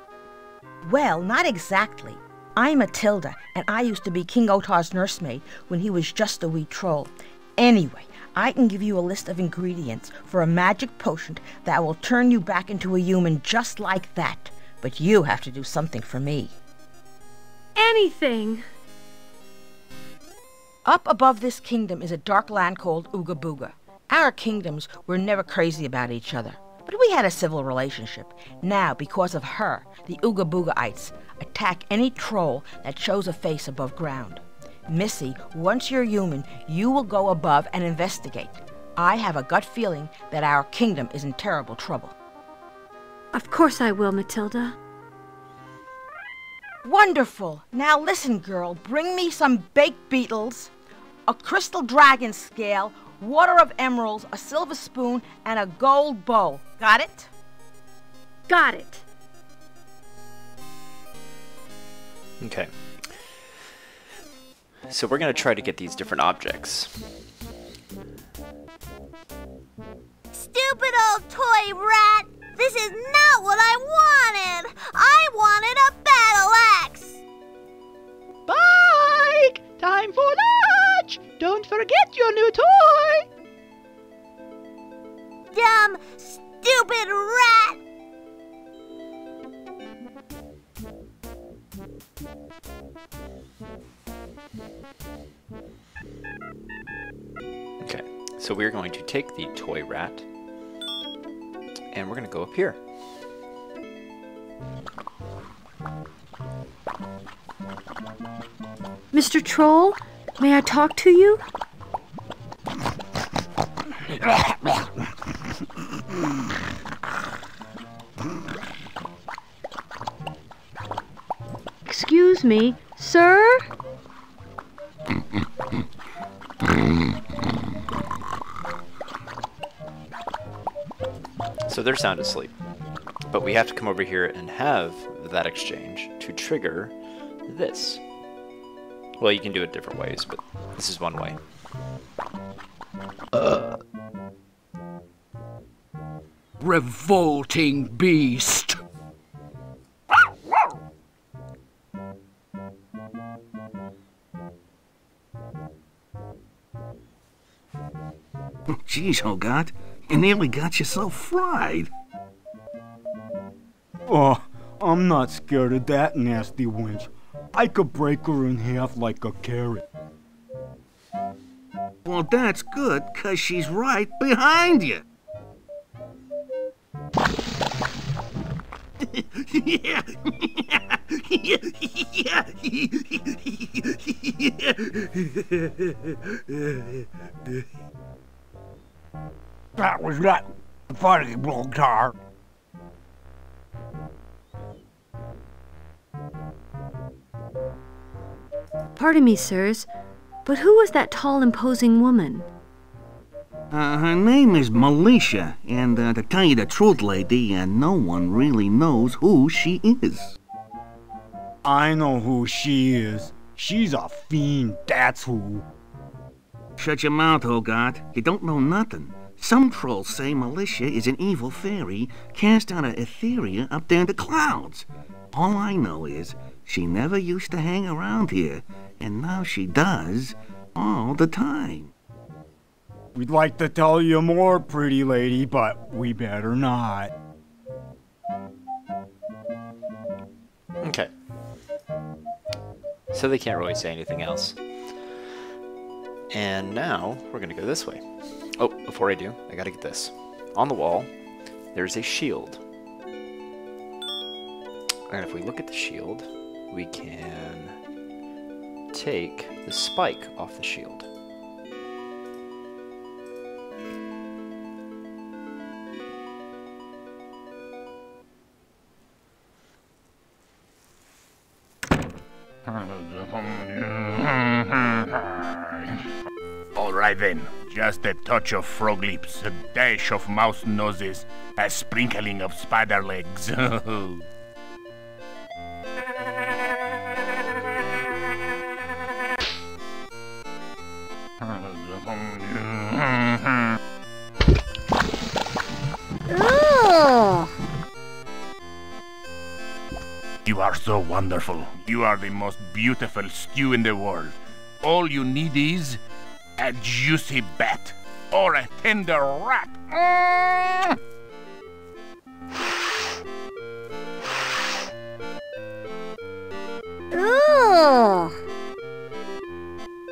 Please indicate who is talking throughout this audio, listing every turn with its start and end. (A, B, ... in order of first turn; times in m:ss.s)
0:00.8-0:16.5 A
0:17.8-0:18.6 B
0:20.8-0:42.1 A
0:43.3-0:44.8 B
0:46.8-0:50.7 A
0:51.3-0:57.3 A
0:58.5-0:59.0 B
1:02.4-1:03.4 C
1:04.9-1:07.1 C
1:10.3-1:17.2 D
1:18.5-1:23.2 E
1:25.5-1:27.8 D
1:37.8-1:40.2 C
1:41.9-1:42.8 C
1:49.1-1:51.4 B
2:01.8-2:03.6 B
2:11.7-2:12.5 C
2:13.3-2:16.9 C
2:17.5-2:18.0 C
2:19.2-2:21.4 C
2:23.3-2:23.7 F
2:26.6-2:28.8 F
2:38.7-2:41.9 G
2:44.1-2:49.8 H
2:52.0-2:55.0 G
2:59.0-3:07.0 G
3:09.8-3:12.1 H
3:19.0-3:19.9 B
3:20.4-3:22.5 B
3:23.7-3:30.4 G
3:31.6-3:35.6 H
3:36.8-3:51.9 G
3:53.1-3:57.1 H
4:00.8-4:01.1 C
4:03.1-4:05.2 C
4:06.3-4:11.1 C
4:11.7-4:12.6 C
4:15.1-4:17.8 C
4:18.9-4:21.1 C
4:36.8-4:44.2 I
4:56.3-4:57.1 B
5:00.4-5:06.0 I
5:06.6-5:10.9 I
5:17.1-5:18.4 B